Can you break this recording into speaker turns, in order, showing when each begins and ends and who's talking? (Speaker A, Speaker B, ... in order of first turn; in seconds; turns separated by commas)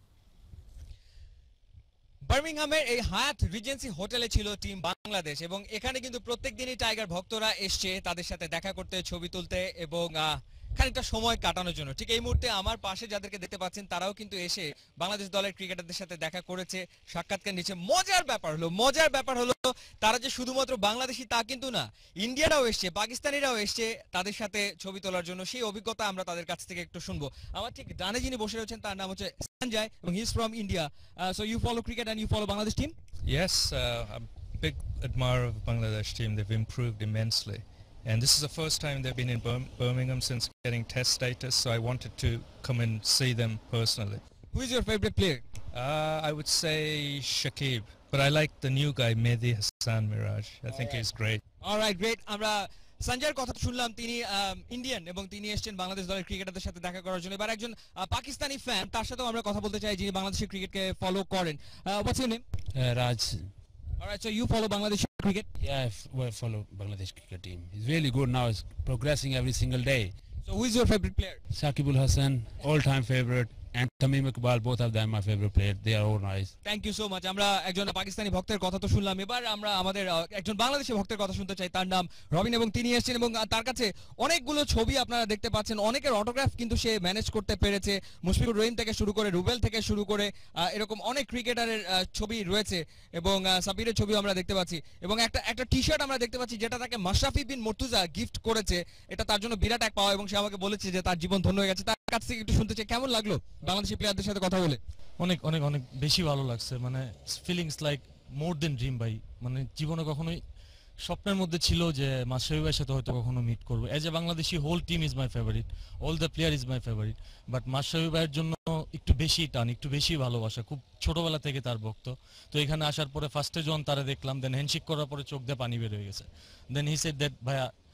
Speaker A: 2.2-32.9, Speaker B: 33.3-44.2, Speaker A: 44.5-45.4, Speaker B: 45.8-51.4, Speaker A: 51.6-62.4, Speaker C: 62.8-63.5, Speaker A: 64.0-65.5, Speaker C: 65.6-70.1, Speaker A: 70.5-71.4, Speaker C: 71.5-76.5, Speaker A: 76.7-104.8, Speaker D: 105.2-110.4, Speaker D: 111.0-127.7